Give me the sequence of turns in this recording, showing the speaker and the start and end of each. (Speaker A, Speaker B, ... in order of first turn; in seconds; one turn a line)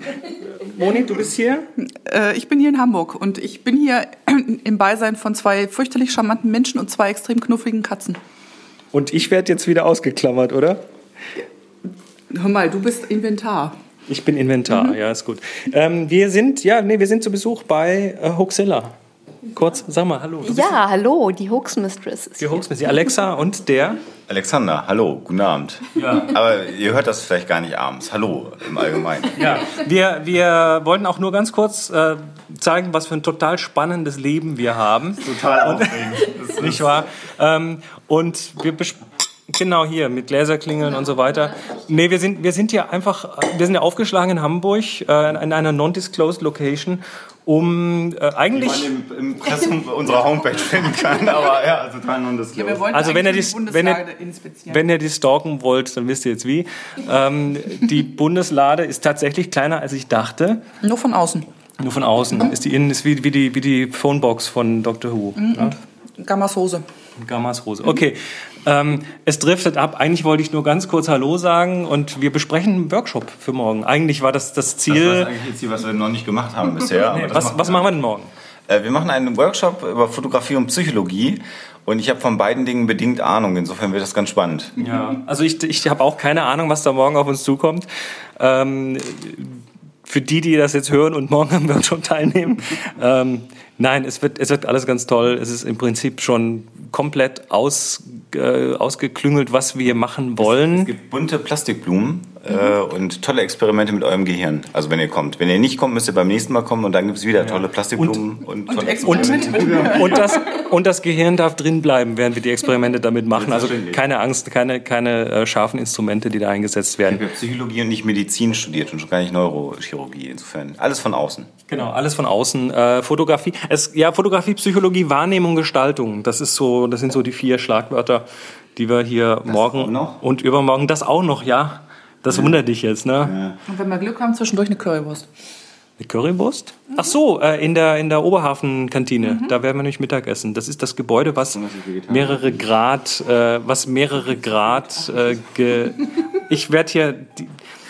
Speaker A: 0.1-1.7
Speaker B: 1.8-8.2
Speaker A: 8.9-10.8
Speaker B: 12.3-13.8
Speaker A: 14.1-18.9
Speaker A: 19.5-20.8
Speaker C: 20.4-22.6
Speaker A: 22.4-24.0
Speaker D: 24.3-29.7
Speaker A: 25.9-26.4
Speaker A: 29.4-48.9
Speaker D: 35.2-37.0
Speaker D: 48.5-52.9
Speaker B: 52.5-54.8
Speaker A: 52.9-54.0
Speaker A: 54.7-60.6
Speaker B: 60.8-61.5
Speaker A: 61.8-65.8
Speaker B: 65.4-66.8
Speaker A: 67.2-75.4
Speaker D: 74.9-77.9
Speaker A: 77.1-78.3
Speaker D: 78.7-84.9
Speaker A: 84.8-87.8
Speaker A: 88.4-100.9
Speaker D: 100.4-110.4
Speaker A: 107.4-108.2
Speaker B: 108.7-110.3
Speaker A: 109.0-117.2
Speaker D: 113.3-114.0
Speaker D: 117.1-121.5
Speaker A: 121.7-128.2
Speaker A: 128.8-133.3
Speaker D: 129.5-130.2
Speaker D: 132.3-132.5
Speaker D: 133.2-133.6
Speaker B: 133.7-135.3
Speaker A: 136.0-147.5
Speaker D: 141.5-142.7